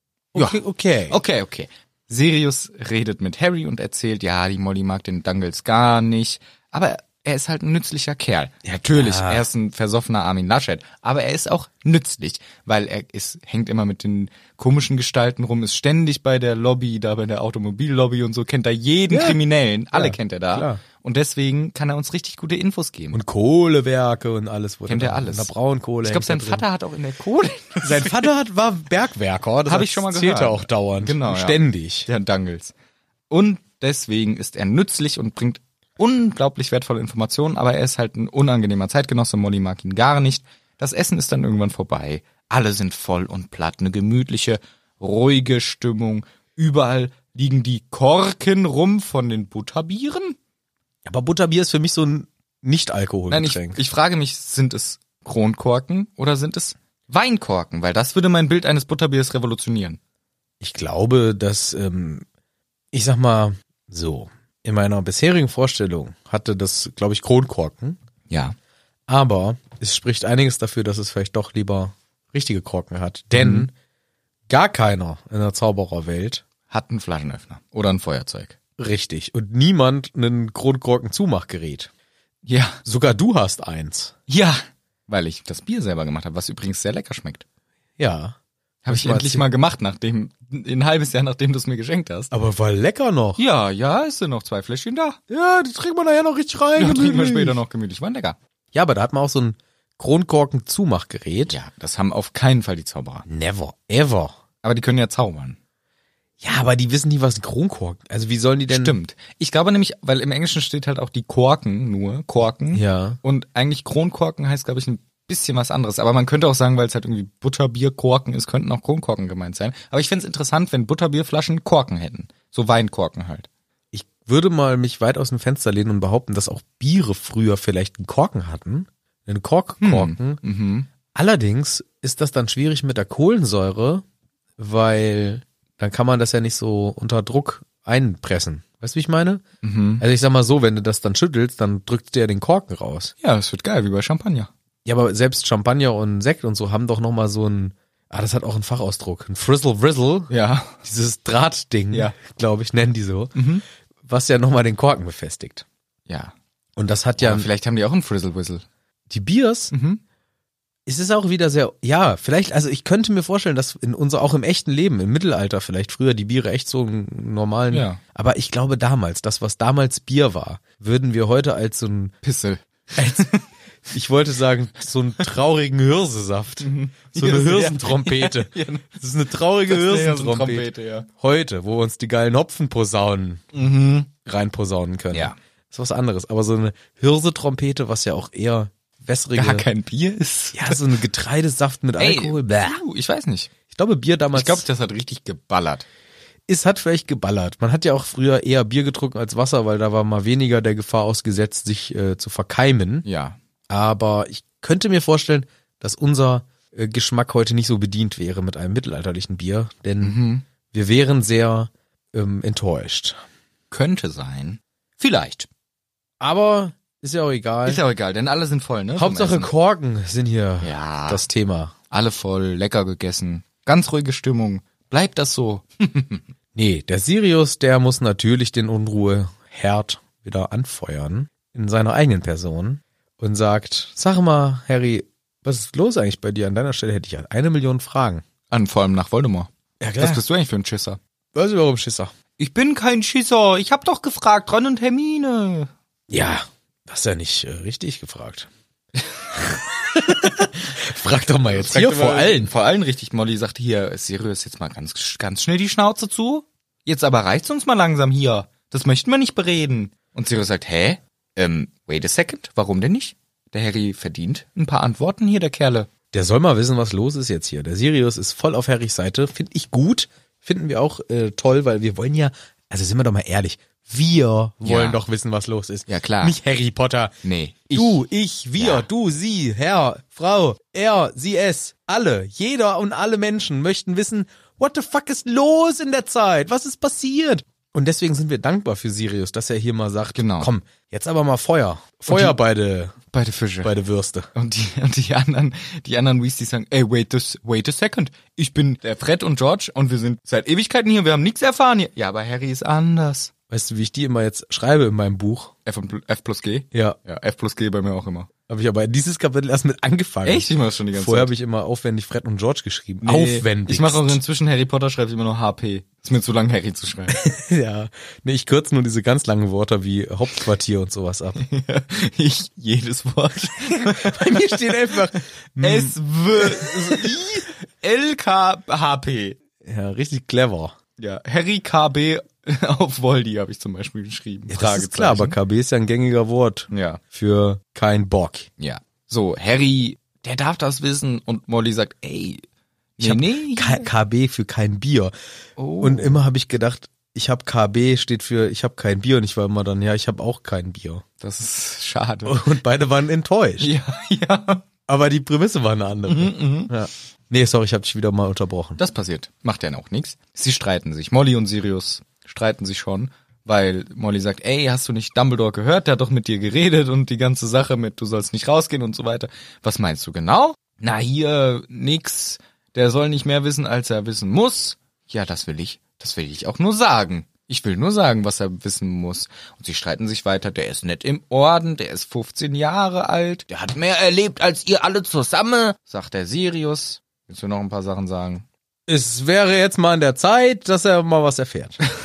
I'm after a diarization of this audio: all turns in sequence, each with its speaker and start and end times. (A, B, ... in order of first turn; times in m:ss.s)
0:00.3-0:01.2 A
0:00.4-0:23.2 B
0:08.6-0:09.5 A
0:19.1-0:19.4 A
0:19.9-0:20.8 A
0:23.1-0:26.6 A
0:24.9-0:25.5 B
0:26.0-0:28.3 B
0:27.8-0:32.1 A
0:29.7-0:32.7 B
0:33.3-0:50.4 B
0:51.0-0:53.8 A
0:53.3-1:00.0 B
1:00.6-1:02.2 A
1:02.9-1:08.0 A
1:08.3-1:08.6 B
1:09.1-1:13.7 A
1:13.4-1:13.7 B
1:14.5-1:16.4 A
1:16.7-1:18.6 B
1:18.8-1:21.9 A
1:22.5-1:22.8 B
1:22.8-1:24.1 A
1:24.3-1:27.4 B
1:28.0-1:28.4 A
1:28.8-1:32.3 B
1:28.9-1:29.4 A
1:32.3-1:33.4 A
1:33.4-1:35.2 B
1:35.3-1:37.6 A
1:36.8-1:38.4 B
1:38.7-1:41.6 A
1:41.5-1:43.2 B
1:43.3-1:44.4 A
1:44.6-1:45.6 B
1:46.4-1:49.0 A
1:48.7-2:03.5 B
1:52.7-1:53.2 A
2:03.9-2:10.4 A
2:09.8-2:10.9 B
2:11.1-2:14.0 A
2:14.6-2:19.4 A
2:19.6-2:20.0 B
2:20.0-2:23.1 A
2:23.2-2:24.5 B
2:24.8-2:33.4 A
2:30.3-2:30.8 B
2:33.4-2:33.6 B
2:34.0-2:35.6 A
2:36.1-2:36.3 B
2:36.8-2:37.5 A
2:37.2-2:38.6 B
2:39.1-2:39.7 A
2:39.7-2:40.0 B
2:40.9-2:52.2 A
2:47.7-2:48.0 B
2:52.2-2:53.5 B
2:53.0-2:53.3 A
2:53.9-3:03.4 A
2:56.6-2:59.0 B
2:59.7-3:01.1 B
3:03.5-3:04.1 B
3:04.2-3:09.7 A
3:09.4-3:10.8 B
3:10.5-3:12.8 A
3:12.0-3:13.5 B
3:13.7-3:14.6 A
3:14.3-3:15.8 B
3:16.5-3:23.1 A
3:23.0-3:23.4 B
3:23.7-3:30.2 A
3:30.0-3:30.4 B
3:30.7-3:33.2 A
3:33.7-3:35.5 B
3:36.2-3:37.8 A
3:37.6-3:39.5 B
3:39.0-3:41.7 A
3:40.6-3:41.2 B
3:41.9-3:46.3 B
3:46.6-3:58.2 A
3:58.5-4:01.0 B
3:59.8-4:00.2 A
4:01.3-4:02.1 A
4:02.4-4:05.7 B
4:06.1-4:08.5 A
4:09.3-4:12.5 A
4:11.5-4:25.9 B
4:26.1-4:37.2 A
4:34.6-4:35.0 B
4:35.9-4:36.4 B
4:37.2-4:38.0 B
4:37.7-4:53.0 A
4:38.6-4:38.8 B
4:50.2-4:50.5 B
4:52.1-4:52.4 B
4:53.1-4:53.7 B
4:53.6-4:54.3 A
4:54.4-5:03.3 B
5:03.5-5:05.5 A
5:05.7-5:08.3 B
5:06.7-5:07.0 A
5:08.5-5:14.2 A
5:10.2-5:11.3 B
5:13.0-5:17.2 B
5:17.1-5:21.4 A
5:21.4-5:25.1 B
5:23.8-5:27.2 A
5:25.6-5:29.4 B
5:29.6-5:30.7 A
5:31.0-5:35.4 B
5:34.5-5:38.5 A
5:36.7-5:37.0 B
5:38.6-5:42.4 B
5:43.0-5:43.9 B
5:43.0-5:45.1 A
5:45.6-5:46.2 B
5:45.8-5:51.0 A
5:51.2-5:52.4 B
5:52.3-5:53.7 A
5:53.6-5:54.6 B
5:54.9-5:58.8 A
5:56.1-5:56.7 B
5:58.8-6:28.4 B
6:28.9-6:31.8 A